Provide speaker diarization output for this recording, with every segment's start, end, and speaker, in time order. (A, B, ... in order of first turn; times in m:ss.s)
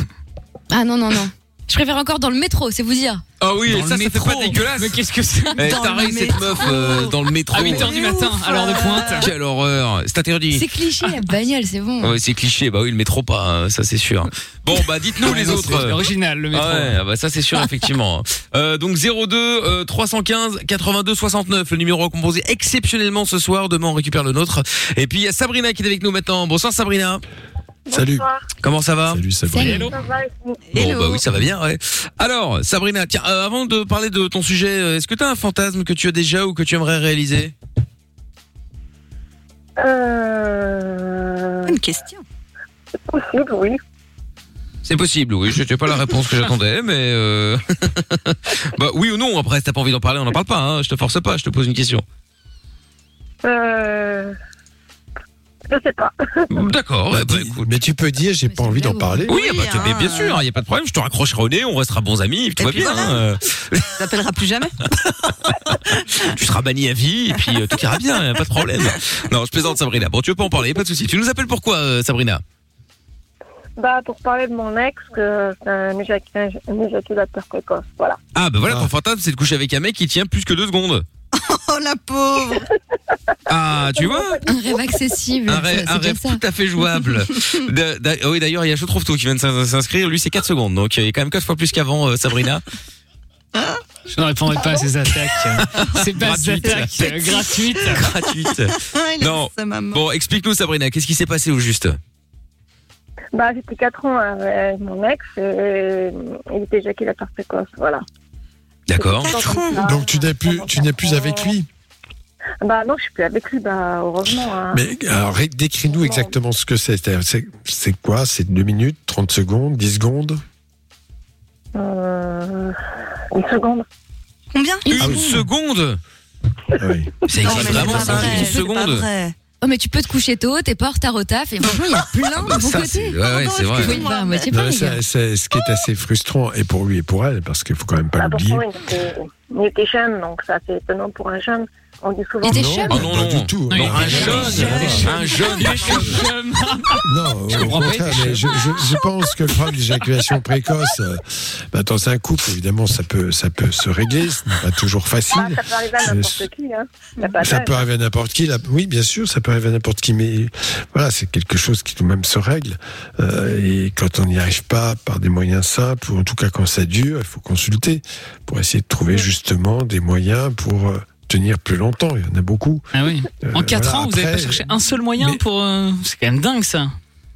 0:00.7-0:03.2 A
0:03.4-0:05.0 B
0:03.6-0:05.7 C
0:05.6-0:09.3 D
0:05.6-0:08.1 B
0:07.5-0:09.3 C
0:09.1-0:10.6 B
0:10.5-0:12.2 A
0:12.0-0:27.2 B
0:15.2-0:17.0 C
0:27.9-0:28.4 E
0:27.9-0:28.3 F
0:28.6-0:29.2 B
0:29.1-0:29.9 F
0:29.5-0:29.9 A
0:29.6-0:29.9 C
0:29.8-0:30.6 E
0:30.7-0:31.2 D
0:30.7-0:37.5 B
0:39.8-0:41.8 E
0:41.6-0:42.2 D
0:43.1-0:43.8 E
0:44.8-0:52.0 B
0:53.4-0:54.3 E
0:55.7-0:56.5 E
0:56.5-0:57.7 B
0:57.1-0:59.3 F
0:58.4-0:59.3 A
0:59.3-1:03.9 B
0:59.3-1:00.4 D
1:02.6-1:03.2 D
1:03.9-1:04.8 D
1:05.0-1:12.4 B
1:13.8-1:18.2 E
1:18.3-1:21.0 B
1:18.6-1:18.9 F
1:21.3-1:22.6 D
1:23.5-1:24.4 B
1:23.7-1:25.0 E
1:24.5-1:26.4 A
1:25.5-1:32.6 B
1:33.5-1:33.8 D
1:34.1-1:38.1 C
1:35.6-1:42.0 B
1:36.6-1:38.1 D
1:38.7-1:40.0 D
1:43.3-1:48.0 E
1:48.9-1:49.7 B
1:48.9-1:51.5 E
1:49.2-1:49.8 D
1:49.8-1:51.7 F
1:52.6-1:54.8 E
1:54.7-2:00.4 F
1:55.9-1:56.3 E
2:01.7-2:02.8 E
2:03.3-2:03.8 E
2:04.5-2:04.9 D
2:04.8-2:05.4 A
2:04.9-2:06.0 B
2:05.0-2:05.3 F
2:06.8-2:08.4 F
2:07.3-2:09.0 B
2:07.4-2:09.3 D
2:07.5-2:08.7 A
2:09.6-2:13.2 A
2:12.4-2:14.0 B
2:13.2-2:14.5 D
2:13.8-2:15.0 A
2:14.5-2:18.6 F
2:18.2-2:22.8 E
2:22.4-2:23.0 A
2:22.5-2:25.1 F
2:22.9-2:26.2 B
2:23.7-2:28.6 C
2:24.1-2:24.5 A
2:27.0-2:36.5 F
2:35.3-2:37.8 E
2:37.4-2:52.8 F
2:52.9-2:56.9 C
2:53.4-2:55.4 F